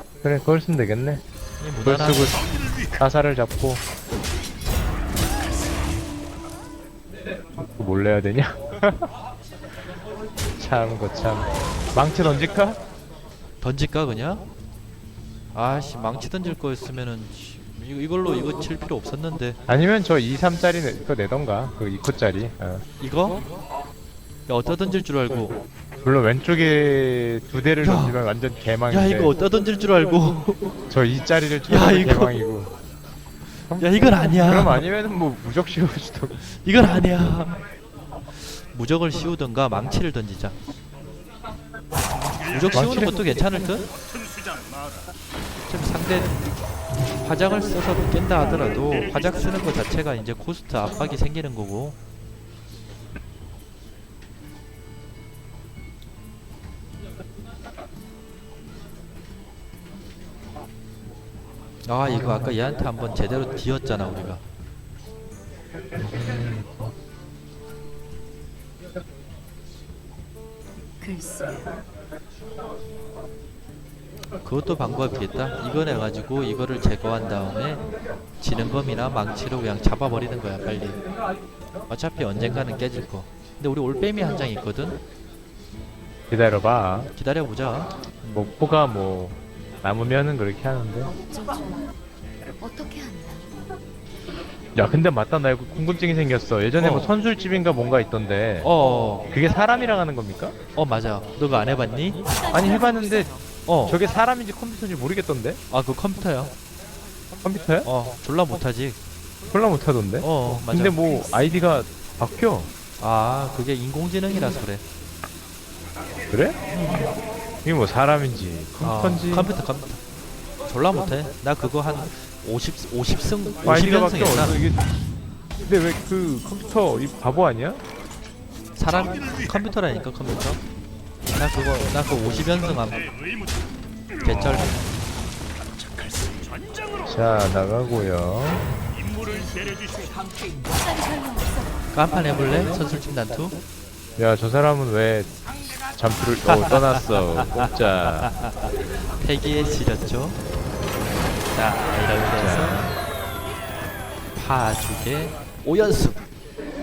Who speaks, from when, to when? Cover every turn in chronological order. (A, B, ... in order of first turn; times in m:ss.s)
0:00.2-0:01.2 A
0:01.6-0:02.4 B
0:01.8-0:03.8 A
0:07.6-0:09.1 A
0:10.6-0:12.8 A
0:13.6-0:14.4 B
0:15.5-0:19.6 B
0:19.7-0:22.8 A
0:23.0-0:23.4 B
0:24.5-0:25.6 B
0:26.0-0:29.3 A
0:27.8-0:28.2 B
0:28.9-0:30.8 B
0:30.9-0:32.7 A
0:31.7-0:32.4 B
0:33.7-0:36.4 A
0:33.8-0:34.8 B
0:36.4-0:37.6 B
0:38.6-0:40.6 B
0:42.4-0:43.9 B
0:42.7-0:43.3 A
0:45.7-0:46.3 B
0:47.2-0:52.0 B
1:01.8-1:04.4 B
1:02.1-1:02.6 A
1:06.0-1:06.9 A
1:11.0-1:11.8 C
1:14.4-1:17.8 B
1:18.4-1:21.0 B
1:21.9-1:25.0 B
1:26.3-1:27.1 A
1:27.2-1:28.5 B
1:28.3-1:31.1 A
1:31.3-1:31.9 C
1:32.6-1:33.6 C
1:34.8-1:38.7 A
1:36.8-1:37.1 B
1:38.6-1:39.3 B
1:39.3-1:40.6 A
1:40.8-1:42.3 B
1:42.3-1:43.4 C
1:42.5-1:43.3 A
1:43.7-1:44.0 B
1:43.9-1:45.6 A
1:45.7-1:46.5 B
1:47.4-1:47.9 A
1:47.8-1:49.0 B
1:49.5-1:52.7 A
1:50.2-1:51.0 B
1:53.0-1:54.8 B
1:56.3-1:56.6 A
1:57.6-1:59.5 A
1:58.8-2:00.0 B
2:00.7-2:04.6 B
2:03.6-2:04.8 A
2:05.6-2:07.8 A
2:08.8-2:10.6 B
2:11.4-2:13.1 B
2:14.2-2:14.8 B
2:17.0-2:18.6 A
2:19.4-2:21.8 C
2:21.9-2:23.6 B
2:24.2-2:25.3 A
2:25.9-2:28.3 A
2:26.4-2:30.4 B
2:31.5-2:32.9 B
2:32.2-2:32.9 A
2:34.4-2:36.2 B